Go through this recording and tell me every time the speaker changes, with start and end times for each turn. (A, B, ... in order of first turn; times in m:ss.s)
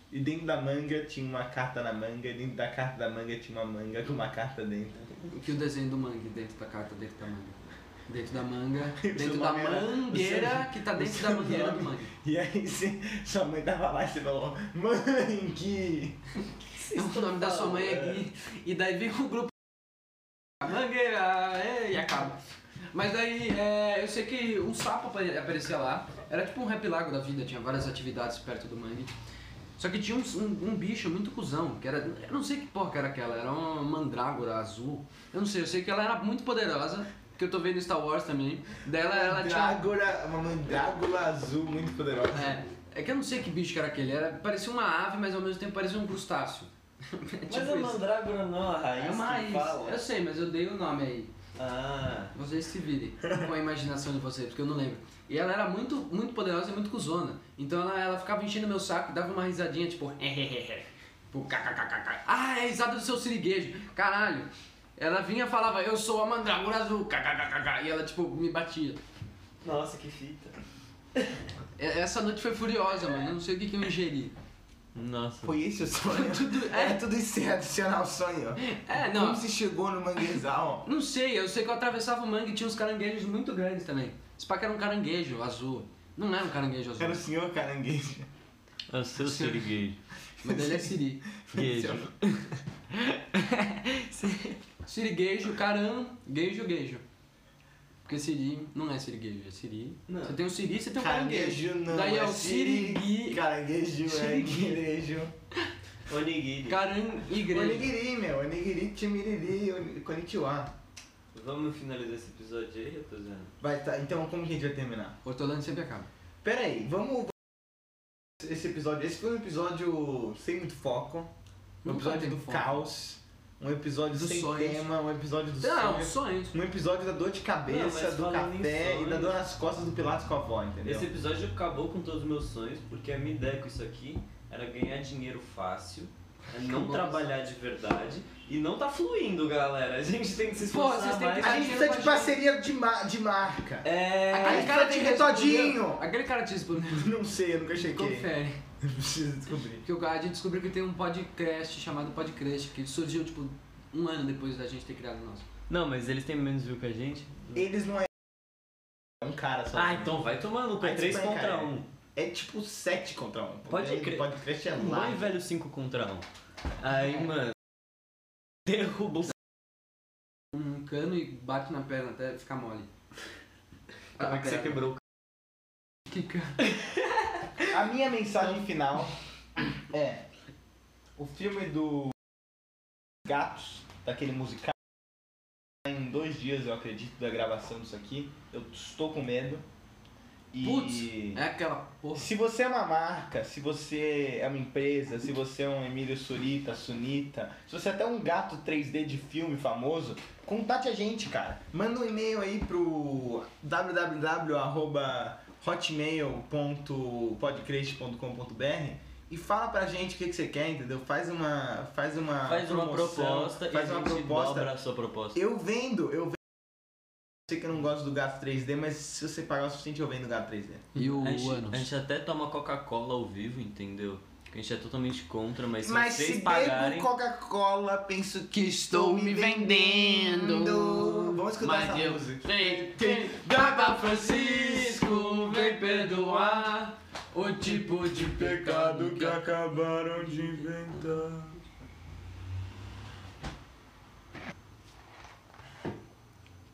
0:00.1-0:05.1 A
0:05.3-0:12.1 B
0:09.0-0:16.2 A
0:16.7-0:18.2 C
0:16.9-0:19.6 B
0:20.6-0:22.4 B
0:22.9-0:29.1 B
0:29.8-0:39.9 B
0:39.0-0:42.5 A
0:42.3-0:48.0 B
0:47.5-0:50.0 C
0:48.9-0:51.3 B
0:51.6-0:52.3 C
0:52.3-1:09.0 B
1:09.6-1:10.6 C
1:11.1-1:11.4 C
1:11.8-1:14.3 B
1:14.9-1:15.6 C
1:15.4-1:20.9 A
1:16.1-1:17.0 B
1:18.6-1:19.4 B
1:20.8-1:27.2 B
1:27.0-1:28.3 A
1:28.9-1:30.0 C
1:29.2-1:29.7 B
1:30.4-1:32.1 B
1:30.4-1:30.9 A
1:31.5-1:32.2 C
1:32.9-1:33.2 C
1:33.4-1:33.8 B
1:33.8-1:34.6 C
1:34.8-1:37.0 B
1:38.0-1:43.4 B
1:40.1-1:40.4 C
1:41.0-1:45.3 A
1:44.0-1:44.8 B
1:46.1-1:46.8 C
1:46.7-1:47.9 B
1:47.4-1:50.7 A
1:51.3-1:53.5 C
1:53.6-1:55.2 A
1:55.2-1:56.1 B
1:56.4-1:57.5 A
1:58.4-2:01.3 A
2:01.8-2:02.8 B
2:01.8-2:11.1 A
2:04.1-2:04.9 B
2:05.6-2:06.6 B
2:07.7-2:09.4 C
2:10.8-2:21.8 C
2:16.6-2:17.2 B
2:20.7-2:22.4 B
2:21.4-2:23.9 A
2:23.8-2:24.7 C
2:24.3-2:27.1 B
2:24.4-2:26.0 A
2:26.9-2:29.8 A
2:27.9-2:28.6 B
2:29.8-2:35.4 B
2:35.7-2:37.6 C
2:37.5-2:38.1 A
2:39.2-2:40.2 A
2:39.7-2:41.8 C
2:40.8-2:45.3 A
2:43.7-2:46.2 C
2:46.8-2:47.6 C
2:48.6-2:49.3 C
2:50.5-2:52.9 B
2:54.2-2:54.8 B
2:54.2-2:55.0 C
2:56.1-2:56.6 B
2:56.6-2:57.7 C
2:57.7-3:00.2 A
3:01.2-3:02.2 A
3:03.2-3:04.7 A
3:05.8-3:09.6 A
3:10.5-3:11.4 A
3:10.6-3:12.3 B
3:12.1-3:34.7 A
3:32.4-3:35.4 C
3:35.3-3:36.4 A
3:37.5-3:40.9 A
3:40.9-3:41.8 B
3:41.0-3:47.1 C
3:45.8-3:56.7 A
3:48.5-3:59.4 B
3:58.1-4:01.6 A
4:00.3-4:01.0 B